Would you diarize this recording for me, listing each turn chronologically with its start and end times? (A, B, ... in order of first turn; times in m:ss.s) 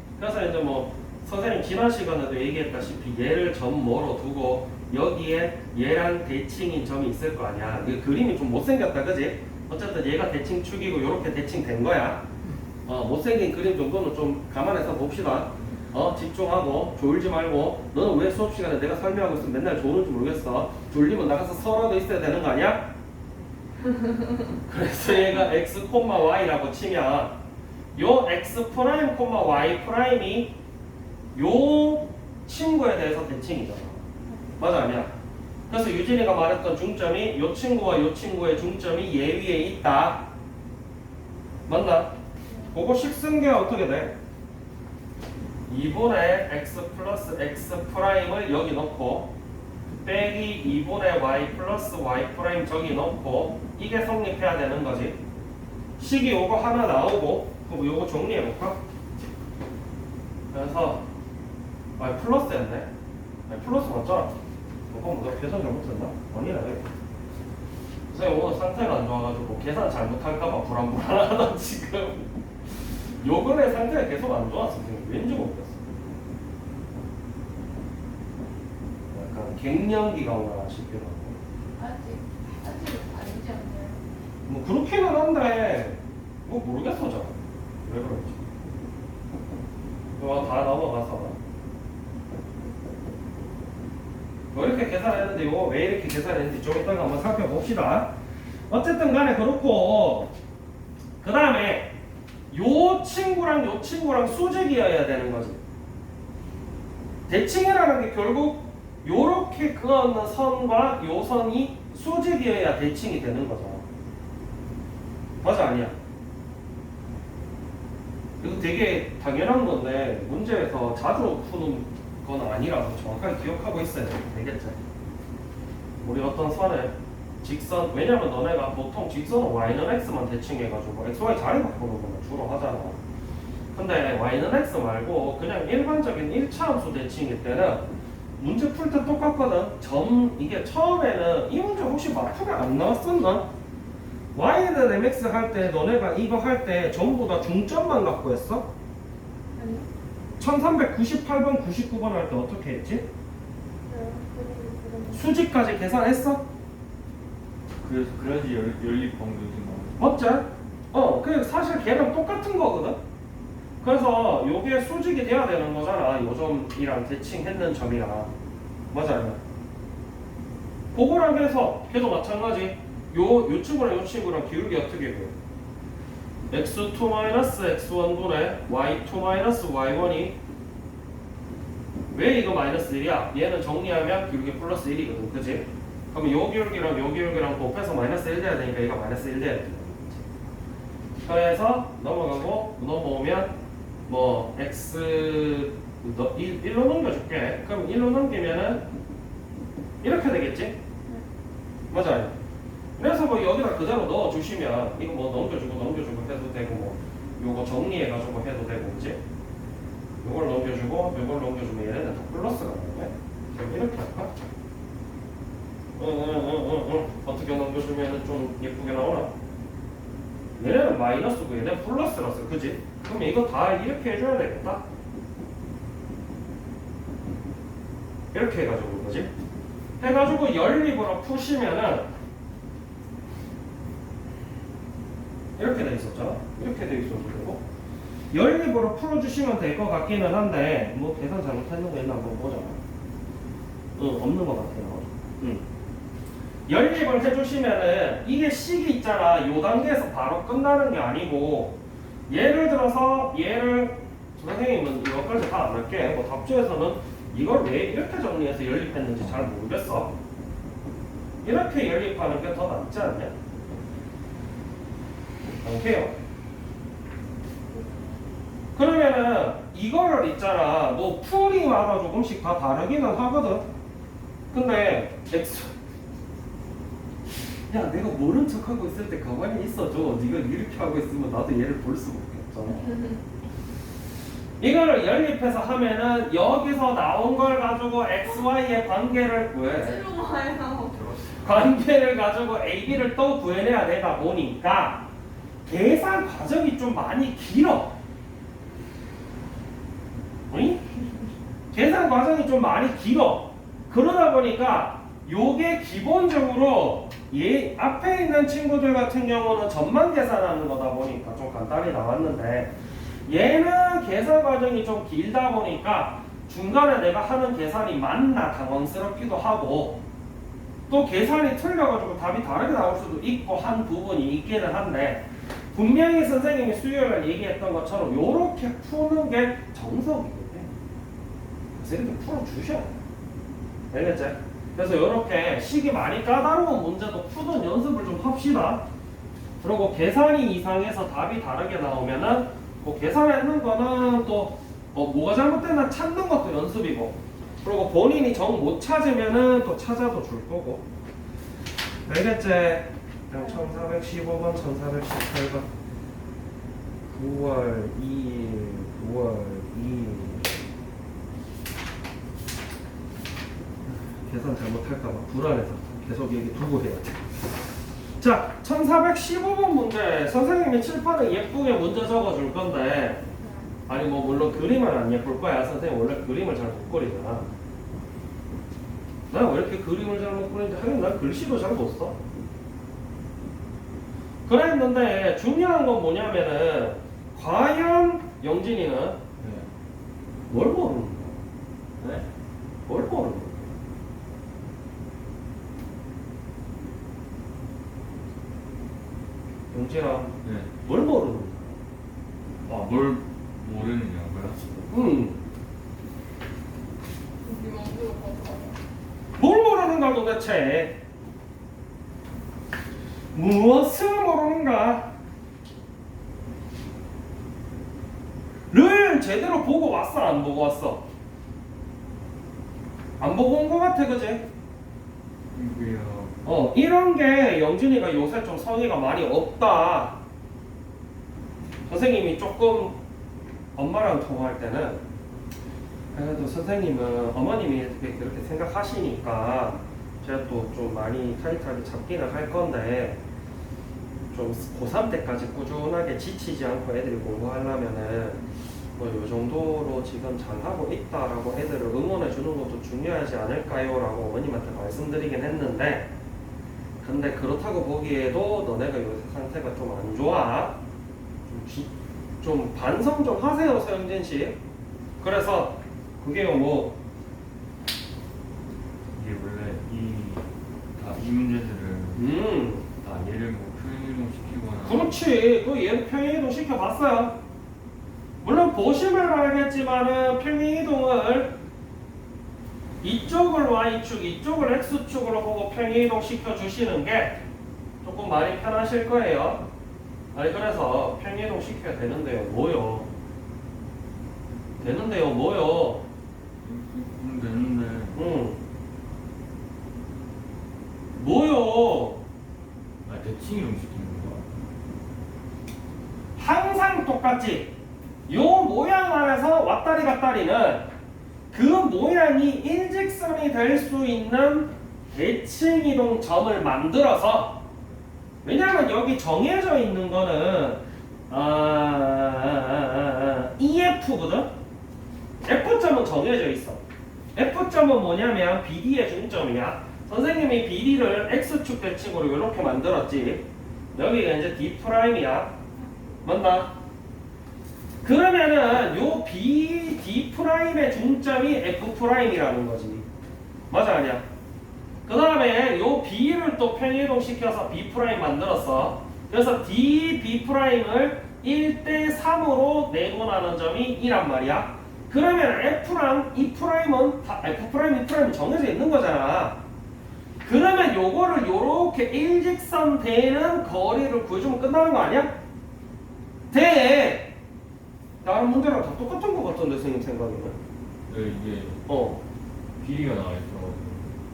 0:00.2-0:12.2 A
0:12.9-0:22.9 A
0:24.7-0:27.4 A
0:28.0-0:30.6 A
0:31.4-0:34.0 A
0:34.3-0:34.6 B
0:34.6-0:35.1 A
0:35.7-0:40.3 A
0:41.7-0:42.1 A
0:42.5-0:42.8 B
0:42.7-0:44.2 A
0:45.7-0:49.3 A
0:50.0-0:55.2 A
0:56.0-0:58.8 A
1:00.5-1:01.0 A
1:02.0-1:02.9 A
1:03.5-1:04.3 A
1:04.9-1:06.8 A
1:08.1-1:12.3 A
1:13.2-1:15.9 A
1:19.1-1:21.4 A
1:21.8-1:24.1 B
1:24.5-1:28.4 A
1:30.2-1:31.4 A
1:34.5-1:38.1 A
1:38.7-1:40.3 A
1:41.2-1:41.9 A
1:42.5-1:45.6 A
1:47.3-1:53.8 A
1:55.4-1:56.0 A
1:58.4-2:04.8 A
2:06.0-2:13.0 A
2:13.8-2:17.9 A
2:18.4-2:23.5 A
2:24.3-2:28.7 A
2:29.6-2:29.9 B
2:30.4-2:33.1 A
2:33.9-2:35.4 B
2:35.1-2:36.5 A
2:37.8-2:40.0 C
2:40.0-2:43.0 A
2:43.8-2:48.3 A
2:48.9-2:49.4 A
2:50.9-2:55.4 A
2:56.5-3:00.4 A
3:02.1-3:10.2 A
3:11.2-3:13.5 A
3:14.1-3:18.8 A
3:20.0-3:20.8 A
3:21.9-3:22.3 A
3:23.0-3:29.2 A
3:30.2-3:34.3 A
3:36.0-3:39.3 A
3:40.6-3:44.8 A
3:48.3-3:49.3 A
3:50.0-3:52.1 A
3:55.6-3:57.6 A
3:58.3-4:02.8 A
4:04.0-4:05.6 A
4:06.7-4:11.8 A
4:12.3-4:20.1 A
4:21.4-4:23.3 A
4:25.6-4:26.2 A
4:27.7-4:28.2 B
4:28.8-4:33.7 A
4:34.5-4:35.7 A
4:37.7-4:43.0 A
4:42.7-4:43.2 B
4:44.6-4:50.0 A
4:49.7-4:51.0 B
4:51.0-4:51.4 C
4:51.4-4:55.1 A
4:55.7-4:57.9 A
5:00.5-5:00.8 A
5:01.7-5:12.7 A
5:13.3-5:20.0 A
5:20.9-5:30.7 A
5:31.8-5:32.9 A
5:33.9-5:38.9 A
5:39.6-5:50.8 A
5:52.1-5:55.7 A
5:57.1-6:00.6 A
6:04.3-6:07.3 A
6:08.2-6:13.2 A
6:13.4-6:13.7 B
6:13.9-6:17.5 A
6:19.3-6:22.2 A
6:24.5-6:29.2 A
6:29.4-6:29.7 C
6:30.5-6:31.4 A
6:32.0-6:32.2 C
6:32.9-6:33.8 A
6:39.7-6:41.8 A
6:40.4-6:40.7 C
6:42.7-6:44.9 C
6:44.9-6:45.4 A
6:47.4-6:48.8 B
6:49.4-6:51.0 A
6:53.4-6:55.1 A
6:58.7-7:01.0 A
7:03.2-7:04.5 A
7:05.5-7:06.4 C
7:06.4-7:10.2 A
7:11.9-7:13.0 A
7:13.8-7:15.0 A
7:16.1-7:23.2 A
7:24.3-7:28.4 A
7:29.0-7:36.1 A
7:37.0-7:40.8 A
7:41.5-7:44.6 A
7:45.2-7:47.0 A
7:49.2-7:52.3 C
7:52.2-7:52.9 A
7:53.0-7:55.2 C
7:54.8-7:57.4 A
7:58.4-8:01.6 A
8:03.0-8:07.4 A
8:08.0-8:09.6 A
8:10.3-8:13.1 A
8:14.8-8:16.1 A
8:16.6-8:18.2 C
8:18.2-8:18.6 A
8:21.2-8:22.2 A
8:23.0-8:24.4 C
8:26.4-8:27.7 A
8:28.3-8:30.9 A
8:31.5-8:37.7 A
8:38.4-8:44.5 A
8:45.4-8:46.8 A
8:47.4-8:55.5 A
8:55.8-8:56.2 B
8:56.2-8:56.7 A
8:58.0-9:03.1 A
9:03.7-9:04.2 A
9:05.1-9:19.6 A
9:20.4-9:25.4 A
9:26.5-9:27.3 A
9:28.2-9:30.6 A
9:31.1-9:31.9 C
9:31.9-9:32.2 A
9:32.8-9:34.2 C